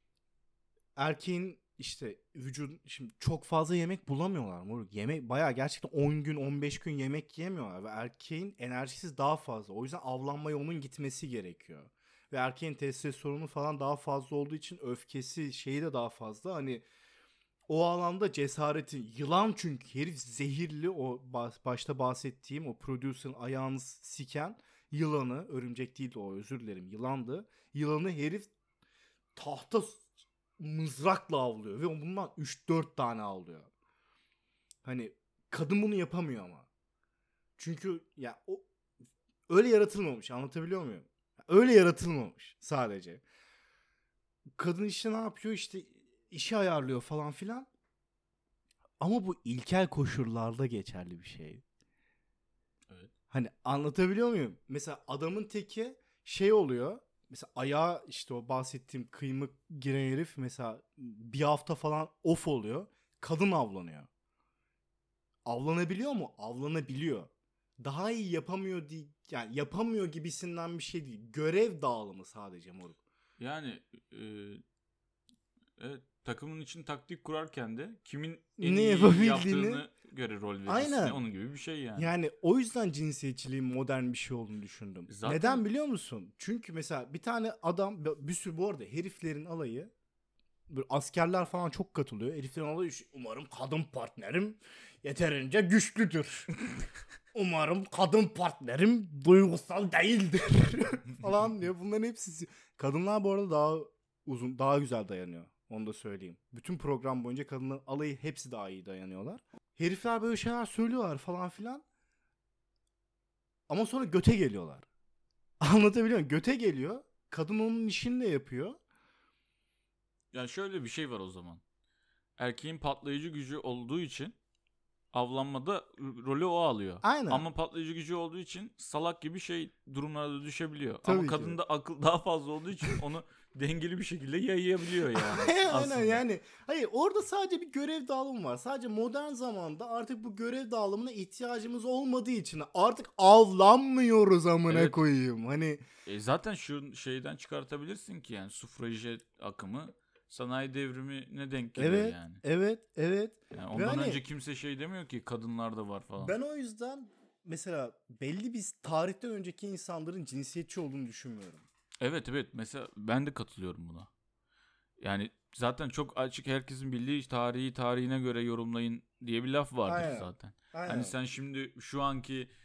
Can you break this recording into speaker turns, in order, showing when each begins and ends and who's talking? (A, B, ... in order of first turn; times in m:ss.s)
0:01.0-0:16.8 A
0:17.7-0:28.5 A
0:29.3-0:33.7 A
0:34.8-0:36.7 A
0:37.6-0:38.7 A
0:39.5-0:43.2 A
0:44.6-0:47.7 A
0:49.0-0:51.6 A
0:53.3-1:04.1 A
1:05.4-1:13.0 A
1:13.4-1:14.6 B
1:15.8-1:22.1 B
1:18.6-1:19.8 A
1:20.7-1:21.2 A
1:22.0-1:29.9 A
1:25.1-1:25.6 B
1:30.7-1:36.5 A
1:37.3-1:51.8 A
1:53.7-1:54.9 A
1:55.6-1:58.8 A
2:00.3-2:01.6 B
2:02.4-2:04.3 B
2:05.1-2:16.2 B
2:07.0-2:07.4 A
2:11.0-2:11.6 A
2:15.1-2:25.8 A
2:24.7-2:25.0 B
2:26.0-2:32.4 B
2:31.8-2:34.2 A
2:33.5-2:36.3 B
2:36.2-2:41.6 A
2:42.0-2:44.1 B
2:45.0-2:52.5 B
2:49.9-2:51.2 A